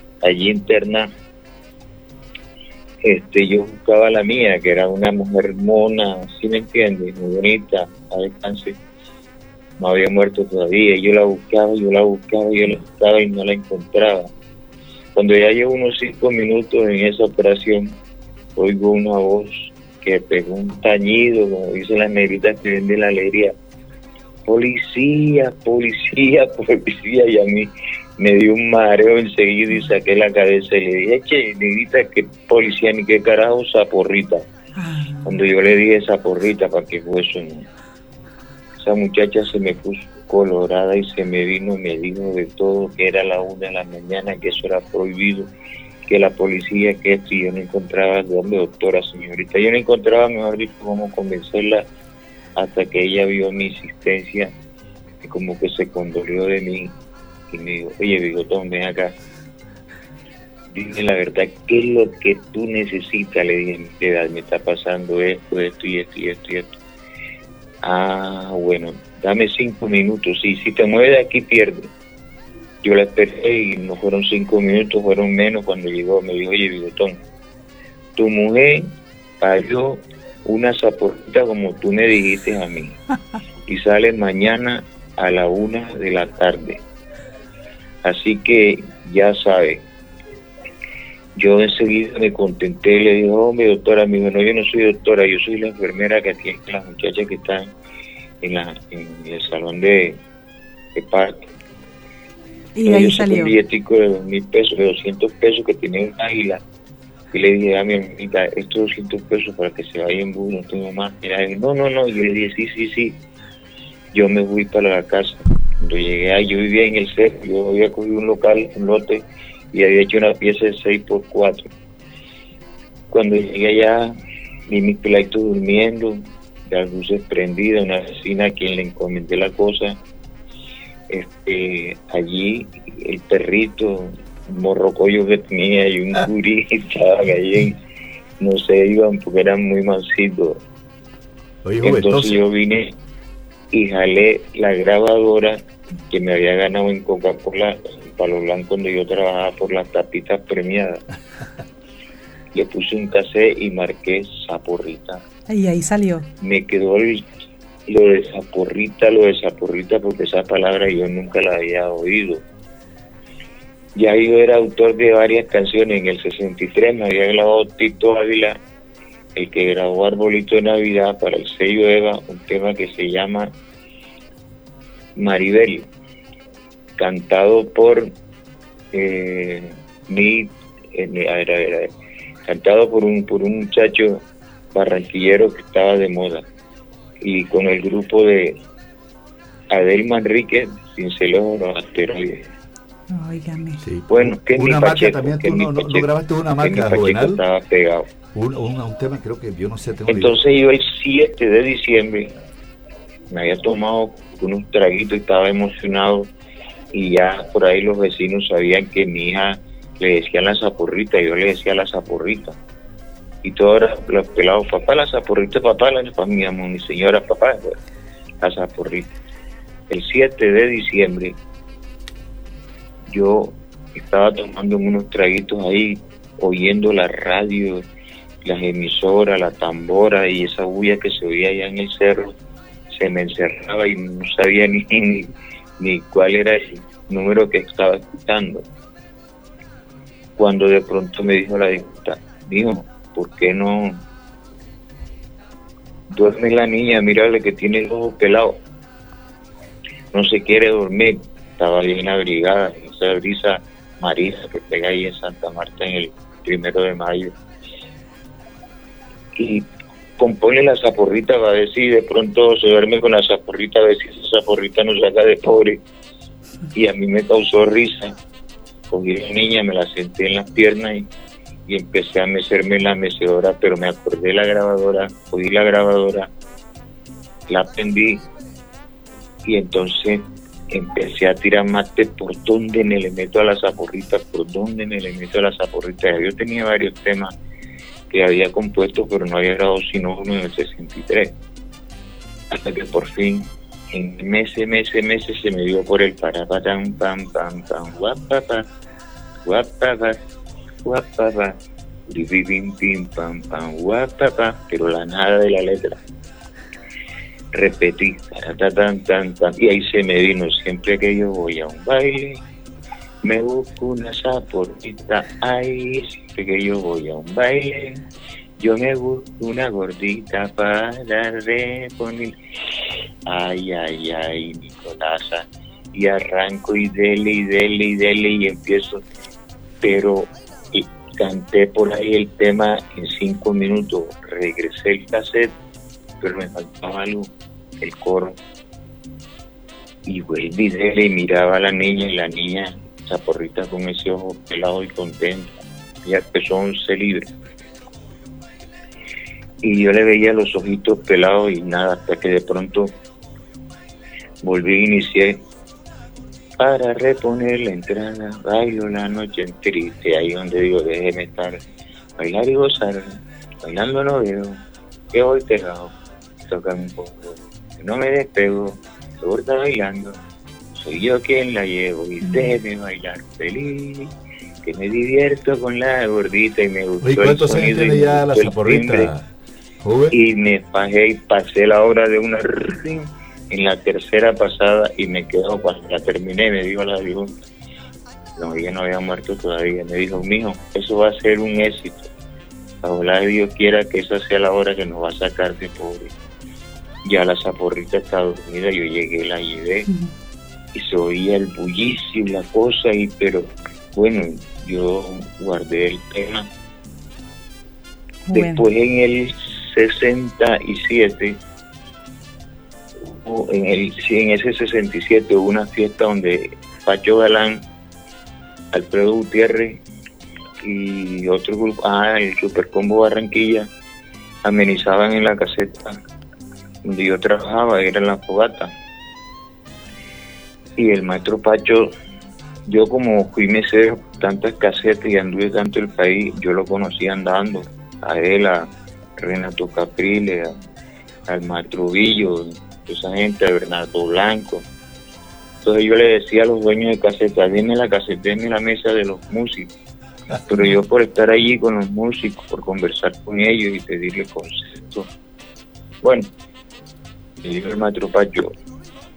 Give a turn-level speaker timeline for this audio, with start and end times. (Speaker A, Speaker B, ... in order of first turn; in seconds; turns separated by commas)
Speaker A: 0.2-1.1, Speaker A: 3.0-8.8, Speaker A: 9.8-14.3, Speaker A: 15.2-18.0, Speaker A: 18.6-23.5, Speaker A: 24.5-34.5, Speaker B: 34.8-35.3, Speaker A: 35.2-37.7, Speaker A: 38.8-45.5, Speaker A: 46.1-51.9, Speaker A: 52.6-54.5, Speaker A: 55.2-57.0, Speaker A: 57.5-59.1, Speaker A: 60.7-66.8, Speaker A: 67.8-71.9, Speaker A: 72.8-77.2, Speaker A: 78.2-83.0, Speaker A: 83.7-86.8, Speaker A: 88.0-89.9, Speaker A: 91.3-97.7, Speaker A: 98.4-100.2, Speaker A: 100.9-101.5, Speaker B: 102.8-103.6, Speaker A: 102.8-106.6, Speaker A: 107.3-113.2, Speaker A: 114.1-121.7, Speaker A: 123.1-124.1, Speaker A: 124.7-130.0, Speaker A: 131.1-137.8, Speaker A: 138.4-140.6, Speaker C: 141.6-142.4, Speaker A: 141.8-143.0, Speaker A: 143.7-151.0, Speaker A: 152.5-155.2, Speaker B: 155.5-156.3, Speaker A: 156.4-157.3, Speaker A: 157.9-162.4, Speaker A: 163.9-168.6, Speaker A: 169.3-173.5, Speaker A: 175.2-175.9, Speaker A: 177.0-178.1, Speaker A: 178.9-181.9, Speaker A: 182.4-186.4, Speaker A: 187.2-188.6, Speaker A: 189.7-192.5, Speaker B: 193.1-193.8, Speaker C: 193.8-197.4, Speaker A: 194.1-198.1, Speaker C: 198.3-200.4, Speaker A: 200.1-202.3, Speaker A: 203.3-206.3, Speaker A: 206.9-212.6, Speaker A: 213.4-217.8, Speaker A: 218.4-219.2, Speaker A: 219.9-221.4, Speaker A: 223.1-227.9, Speaker A: 228.4-232.3, Speaker A: 232.9-238.7, Speaker A: 240.4-244.0, Speaker A: 246.1-248.6, Speaker A: 250.1-257.4, Speaker A: 259.4-265.8, Speaker A: 266.7-268.2, Speaker A: 268.9-271.1, Speaker A: 271.7-276.3, Speaker A: 277.5-278.2, Speaker A: 279.4-287.3, Speaker A: 288.1-291.4, Speaker A: 292.5-298.7, Speaker A: 299.4-300.2, Speaker A: 300.8-306.0, Speaker A: 307.5-312.4, Speaker A: 313.2-318.0, Speaker A: 318.6-322.4, Speaker A: 323.2-329.0, Speaker A: 329.8-335.6, Speaker A: 336.2-338.4, Speaker A: 340.1-347.3, Speaker A: 349.6-352.9, Speaker A: 354.4-355.4, Speaker A: 356.6-361.6, Speaker A: 362.2-370.2, Speaker A: 370.7-374.1, Speaker A: 374.6-379.1, Speaker C: 377.0-379.3, Speaker C: 379.8-380.2, Speaker A: 380.1-387.4, Speaker A: 388.4-392.1, Speaker A: 392.8-396.1, Speaker A: 397.0-399.9, Speaker A: 400.7-406.5, Speaker B: 408.3-408.6, Speaker A: 408.3-411.4, Speaker A: 413.0-417.6, Speaker A: 418.7-419.8, Speaker A: 420.6-423.7, Speaker A: 424.4-426.0, Speaker A: 426.8-428.7, Speaker A: 430.8-431.9, Speaker A: 432.7-440.5, Speaker A: 441.3-444.7, Speaker A: 445.6-449.7, Speaker A: 450.5-455.1, Speaker A: 456.0-456.3, Speaker A: 457.4-458.5